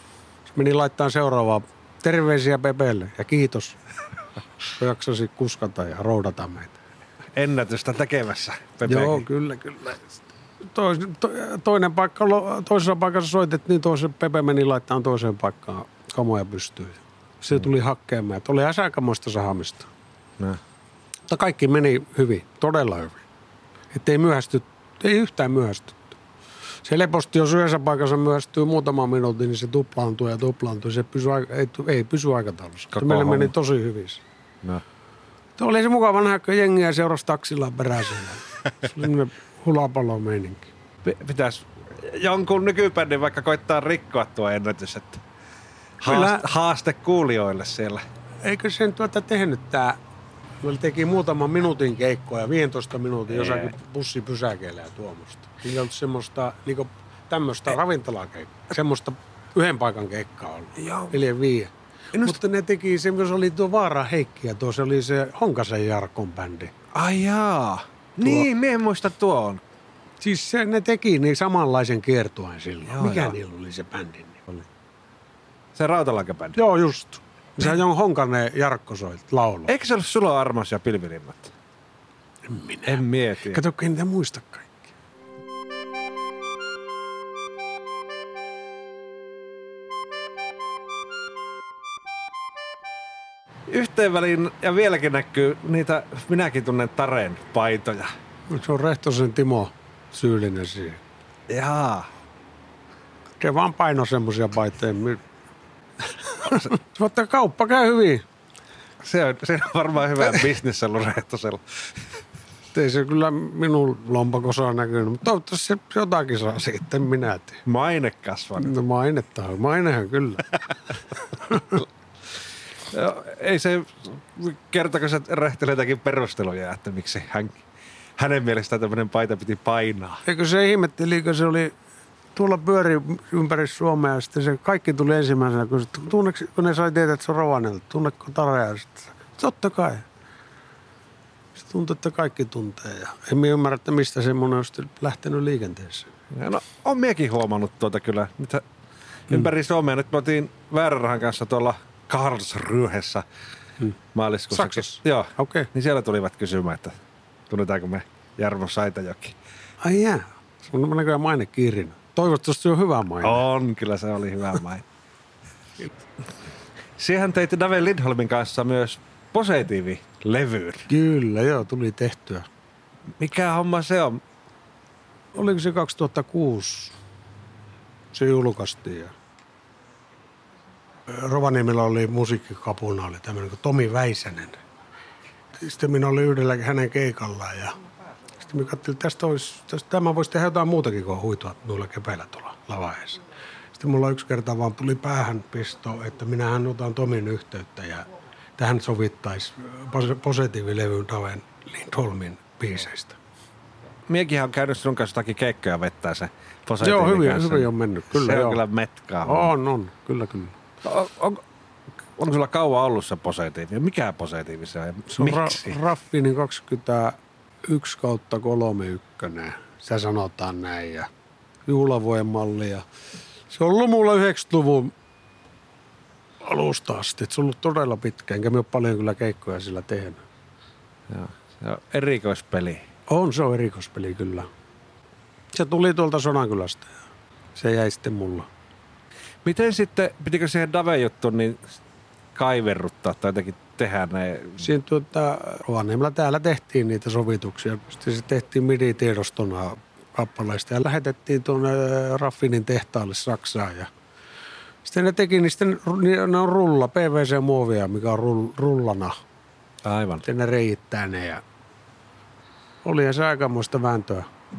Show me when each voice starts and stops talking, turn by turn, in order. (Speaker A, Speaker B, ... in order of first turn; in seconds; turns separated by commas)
Speaker A: 0.5-3.8, Speaker A: 4.8-6.8, Speaker B: 7.3-9.2, Speaker A: 8.8-19.9, Speaker A: 21.3-23.2, Speaker A: 23.9-26.1, Speaker A: 26.8-34.2, Speaker B: 32.9-33.5, Speaker A: 35.6-40.7, Speaker B: 41.0-45.2, Speaker B: 46.0-48.0, Speaker A: 46.0-46.5, Speaker A: 48.5-50.0, Speaker A: 50.6-66.7, Speaker B: 53.3-53.7, Speaker B: 60.8-61.2, Speaker B: 62.1-62.4, Speaker B: 66.9-69.6, Speaker A: 68.2-68.5, Speaker A: 70.2-74.7, Speaker B: 72.9-73.3, Speaker B: 75.8-76.6, Speaker A: 76.5-79.7, Speaker B: 79.7-81.5, Speaker A: 82.5-84.8, Speaker B: 82.9-83.6, Speaker B: 93.7-98.1, Speaker A: 98.5-101.0, Speaker B: 101.5-102.1, Speaker A: 103.4-105.2, Speaker A: 106.2-108.2, Speaker B: 109.0-112.2, Speaker A: 112.7-117.6, Speaker B: 117.7-118.7, Speaker A: 118.6-120.6, Speaker A: 121.5-121.8, Speaker B: 122.9-127.6, Speaker B: 128.2-130.2, Speaker A: 130.2-131.7, Speaker A: 132.3-140.1, Speaker A: 141.6-146.1, Speaker B: 146.3-148.6, Speaker B: 149.3-153.2, Speaker B: 154.1-156.9, Speaker A: 154.5-155.7, Speaker B: 157.5-159.3, Speaker A: 159.8-163.4, Speaker B: 163.2-164.8, Speaker B: 167.0-170.9, Speaker A: 170.9-172.5, Speaker B: 173.2-174.2, Speaker A: 175.3-177.0, Speaker A: 178.1-179.1, Speaker A: 181.1-184.6, Speaker A: 185.5-187.8, Speaker A: 188.4-193.2, Speaker A: 193.7-203.2, Speaker B: 204.1-209.5, Speaker A: 206.8-208.6, Speaker A: 209.2-210.6, Speaker B: 210.8-211.4, Speaker B: 212.2-215.8, Speaker A: 215.1-221.1, Speaker A: 221.7-222.8, Speaker A: 223.5-224.9, Speaker A: 226.4-230.2, Speaker B: 231.1-232.8, Speaker A: 233.1-234.5, Speaker A: 235.5-236.9, Speaker A: 237.6-238.5, Speaker B: 239.4-241.6, Speaker B: 242.3-244.7, Speaker A: 244.6-253.9, Speaker A: 254.8-259.1, Speaker B: 259.8-260.2, Speaker A: 260.2-261.4, Speaker A: 262.8-264.3